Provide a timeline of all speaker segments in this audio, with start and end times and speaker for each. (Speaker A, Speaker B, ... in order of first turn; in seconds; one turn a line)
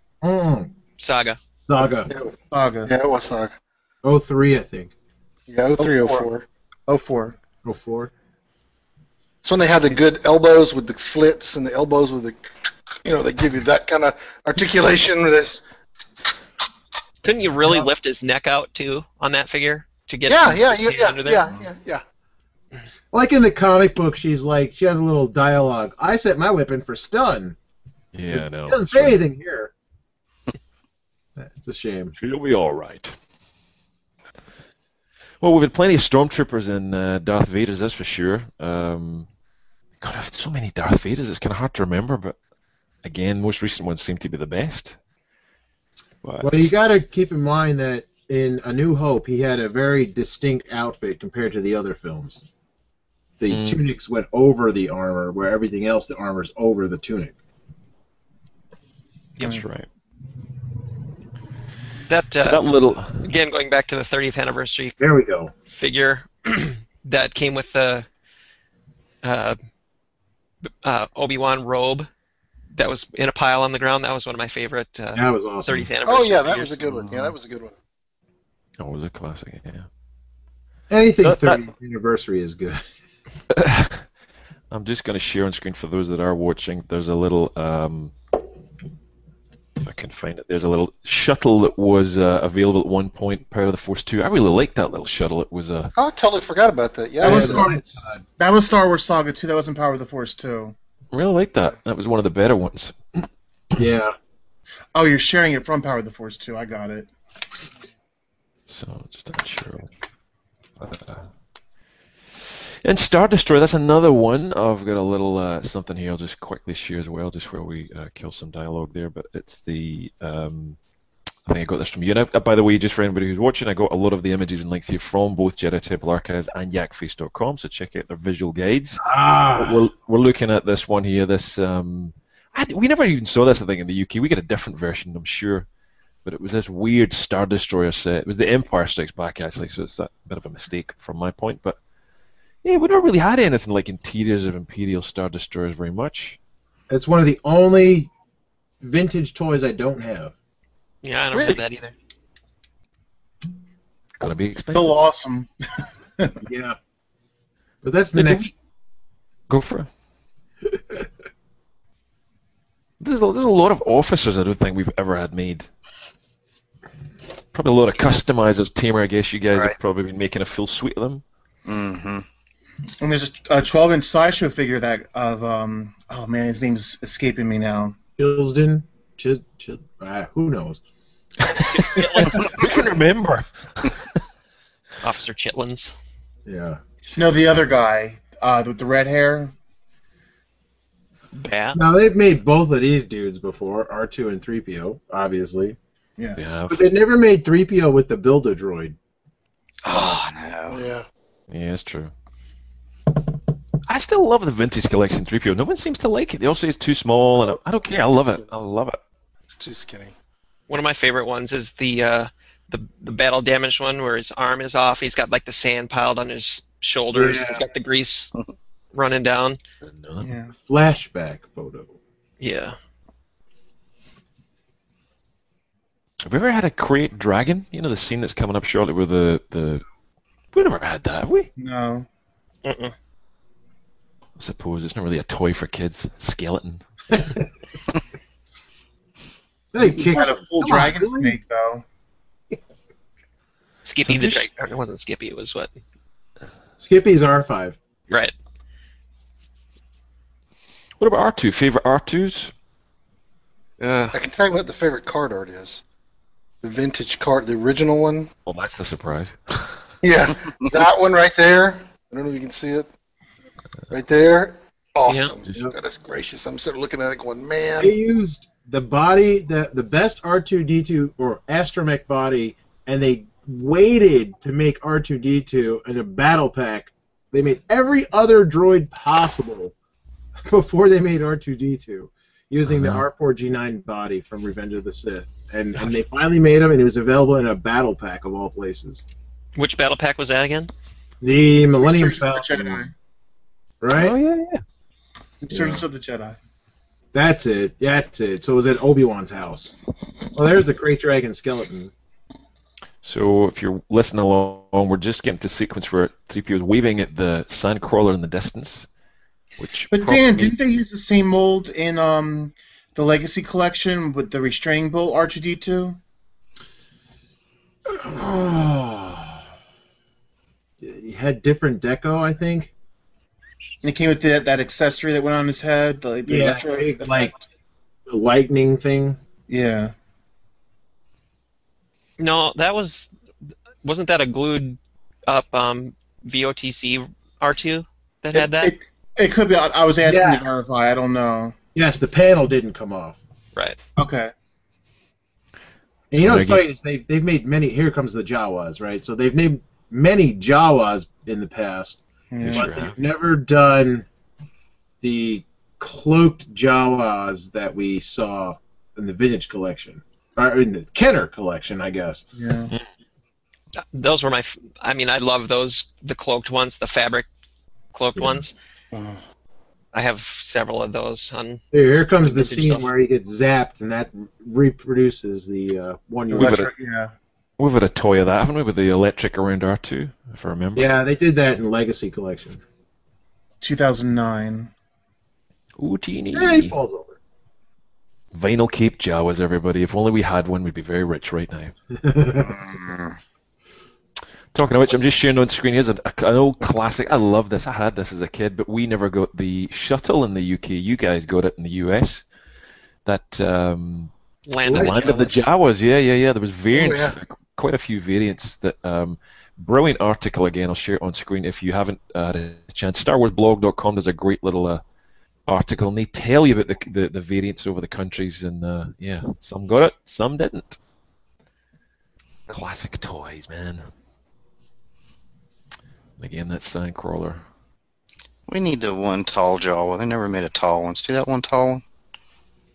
Speaker A: 0.2-0.7
Speaker B: 1.0-1.4
Speaker A: 1.7-2.1
Speaker C: 2.1-3.5
Speaker D: 2.5-2.9
Speaker A: 4.0-4.9
Speaker C: 5.5-6.5
Speaker D: 5.8-6.3
Speaker D: 6.9-7.4
Speaker A: 7.6-8.1
Speaker C: 9.4-12.4
Speaker C: 13.0-15.6
Speaker B: 17.2-21.5
Speaker A: 17.6-17.9
Speaker C: 20.3-22.0
Speaker A: 23.1-27.6
Speaker E: 28.1-29.2
Speaker A: 28.3-29.7
Speaker A: 31.4-32.1
Speaker E: 32.2-33.1
Speaker E: 35.4-39.3
Speaker E: 40.0-42.4
Speaker E: 43.0-45.0
Speaker E: 46.2-46.7
Speaker A: 46.4-52.5
Speaker A: 53.4-57.4
Speaker E: 53.5-53.9
Speaker E: 59.4-59.9
Speaker B: 62.1-65.0
Speaker E: 62.4-63.2
Speaker A: 65.0-65.5
Speaker B: 65.7-68.1
Speaker B: 69.2-69.6
Speaker B: 70.7-72.1
Speaker B: 72.8-76.8
Speaker A: 75.2-75.9
Speaker C: 76.1-77.8
Speaker E: 78.8-79.9
Speaker A: 80.9-82.8
Speaker E: 81.2-81.6
Speaker E: 83.5-84.1
Speaker E: 84.7-88.1
Speaker E: 89.8-95.9
Speaker C: 96.0-97.7
Speaker D: 97.2-97.8
Speaker A: 97.2-98.2
Speaker D: 98.4-100.8
Speaker E: 101.1-103.0
Speaker A: 103.8-104.1
Speaker D: 105.0-107.1
Speaker E: 108.7-109.9
Speaker E: 110.8-111.3
Speaker E: 112.4-120.8
Speaker E: 121.5-135.7
Speaker A: 129.0-129.9
Speaker E: 136.2-141.8
Speaker E: 142.6-146.4
Speaker A: 146.9-148.1
Speaker A: 148.8-150.3
Speaker B: 151.0-151.9
Speaker E: 151.3-151.6
Speaker E: 154.2-155.0
Speaker D: 154.6-155.5
Speaker A: 156.4-156.8
Speaker A: 157.8-158.5
Speaker E: 158.2-158.5
Speaker E: 159.5-159.9
Speaker A: 160.7-161.1
Speaker E: 163.0-165.7
Speaker E: 167.5-171.2
Speaker F: 171.7-172.2
Speaker D: 173.0-177.9
Speaker A: 178.2-180.8
Speaker E: 181.4-184.1
Speaker B: 181.7-182.7
Speaker B: 185.0-185.9
Speaker A: 186.5-186.8
Speaker D: 187.2-189.5
Speaker B: 191.3-191.8
Speaker A: 191.7-195.8
Speaker D: 196.2-196.5
Speaker E: 196.4-196.8
Speaker A: 196.7-199.0
Speaker F: 199.8-200.8
Speaker C: 200.7-201.1
Speaker E: 201.5-202.1
Speaker E: 203.9-209.0
Speaker C: 209.5-210.2
Speaker B: 210.7-218.3
Speaker A: 217.1-217.7
Speaker B: 218.9-219.6
Speaker E: 219.8-220.3
Speaker D: 220.2-220.5
Speaker A: 220.5-222.0
Speaker B: 222.4-222.8
Speaker E: 226.2-229.8
Speaker E: 230.5-231.5
Speaker D: 231.6-232.1
Speaker B: 232.7-232.9
Speaker E: 234.4-236.8
Speaker A: 237.1-237.4
Speaker A: 239.7-241.4
Speaker D: 239.8-241.8
Speaker B: 243.8-245.7
Speaker E: 244.0-244.5
Speaker A: 246.8-247.8
Speaker E: 251.0-252.5
Speaker B: 253.8-254.1
Speaker C: 254.1-255.8
Speaker C: 256.6-258.3
Speaker E: 258.5-259.9
Speaker C: 260.0-262.9
Speaker C: 263.9-267.9
Speaker B: 265.1-265.3
Speaker A: 267.8-279.7
Speaker A: 280.5-289.1
Speaker E: 282.7-283.0
Speaker B: 289.6-290.7
Speaker A: 291.2-292.9
Speaker D: 291.8-292.9
Speaker A: 293.8-294.2
Speaker E: 293.9-294.6
Speaker D: 295.4-296.4
Speaker A: 295.5-295.8
Speaker A: 297.1-299.7
Speaker A: 300.3-301.9
Speaker E: 303.0-308.9
Speaker E: 309.6-310.6
Speaker D: 309.9-316.0
Speaker A: 317.9-319.4
Speaker A: 320.8-322.7
Speaker D: 323.8-327.4
Speaker A: 326.2-327.3
Speaker A: 328.1-329.2
Speaker D: 329.5-329.9
Speaker B: 332.2-333.1
Speaker B: 333.8-338.7
Speaker D: 338.3-341.6
Speaker A: 340.0-340.6
Speaker A: 341.8-343.2
Speaker D: 344.0-344.3
Speaker A: 346.1-354.1
Speaker E: 346.1-346.6
Speaker D: 352.3-352.7
Speaker E: 352.4-353.0
Speaker A: 355.0-362.3
Speaker D: 362.4-362.7
Speaker B: 363.9-367.3
Speaker B: 367.9-368.5
Speaker C: 368.9-369.2
Speaker B: 369.9-371.6
Speaker A: 371.7-376.7
Speaker B: 372.2-372.9
Speaker D: 376.3-377.1
Speaker E: 376.4-376.7
Speaker E: 377.6-380.9
Speaker A: 380.8-382.6
Speaker D: 383.6-384.7
Speaker E: 385.8-386.8
Speaker A: 386.3-387.2
Speaker E: 388.3-391.7
Speaker A: 391.9-392.6
Speaker F: 392.4-393.2
Speaker E: 394.5-402.3
Speaker E: 403.1-404.1
Speaker B: 404.5-405.4
Speaker A: 404.6-405.3
Speaker E: 404.7-414.8
Speaker C: 406.7-407.2
Speaker E: 415.5-420.8
Speaker E: 422.5-423.8
Speaker E: 426.2-427.4
Speaker F: 428.5-431.8